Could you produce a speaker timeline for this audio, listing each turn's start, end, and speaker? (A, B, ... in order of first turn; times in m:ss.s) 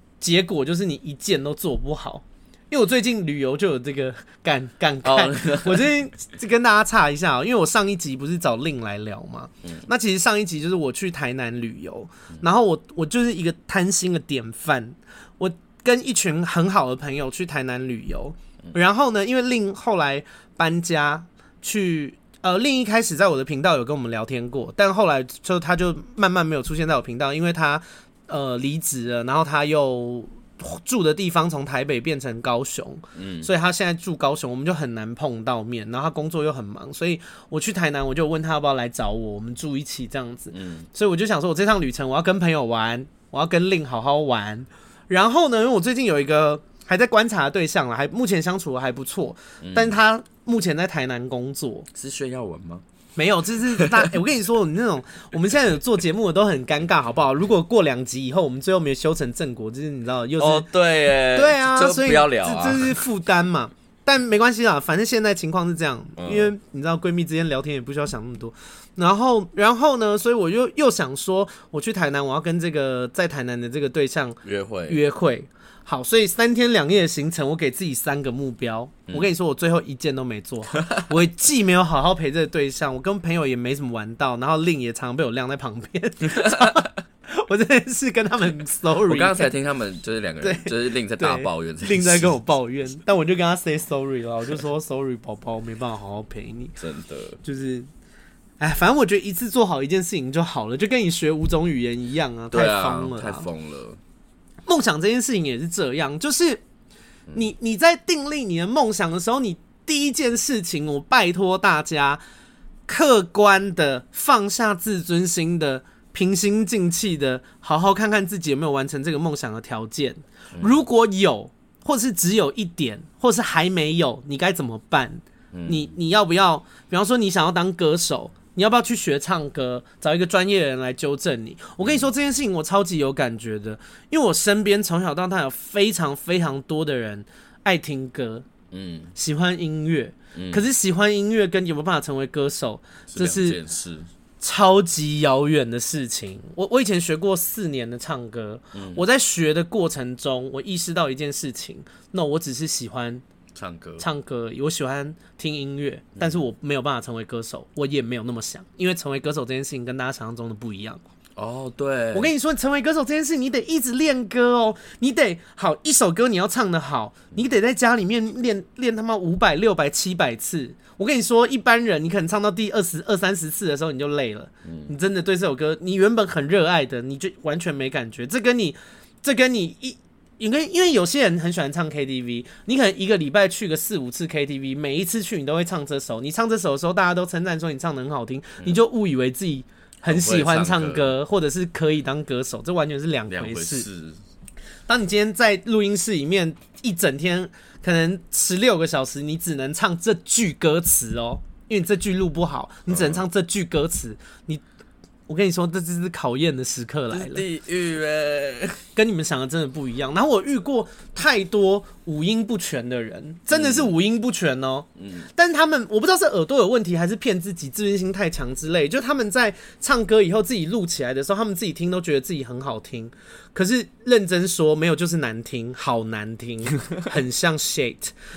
0:00.2-0:51.9 A
0:05.0-0:05.9 B
0:33.1-0:33.5 B
0:40.5-0:40.9 B
0:49.6-0:50.0 B
0:51.9-0:52.8 B
0:53.2-1:00.6 A
1:00.4-1:03.0 B
1:01.3-1:29.5 A
1:06.2-1:06.5 B
1:14.4-1:15.0 B
1:26.3-1:26.8 B
1:29.0-1:32.4 B
1:30.4-1:36.8 A
1:36.8-1:37.4 B
1:37.4-1:37.9 A
1:38.6-1:43.5 A
1:42.5-1:44.0 B
1:44.6-1:46.6 A
1:47.3-1:52.2 A
1:52.9-2:18.5 A
2:05.5-2:05.9 B
2:18.7-2:19.1 B
2:19.1-2:23.6 A
2:20.3-2:20.6 B
2:23.1-2:24.1 B
2:24.4-2:33.2 A
2:28.7-2:29.0 B
2:33.5-2:34.0 B
2:34.0-2:41.0 A
2:41.4-2:42.3 B
2:42.1-3:13.8 A
2:54.6-2:54.9 B
3:10.0-3:11.2 B
3:13.3-3:14.2 B
3:14.9-3:24.6 A
3:22.9-3:23.2 B
3:25.3-3:27.4 A
3:27.1-3:28.8 B
3:28.9-3:48.1 A
3:33.5-3:33.9 B
3:35.0-3:35.3 B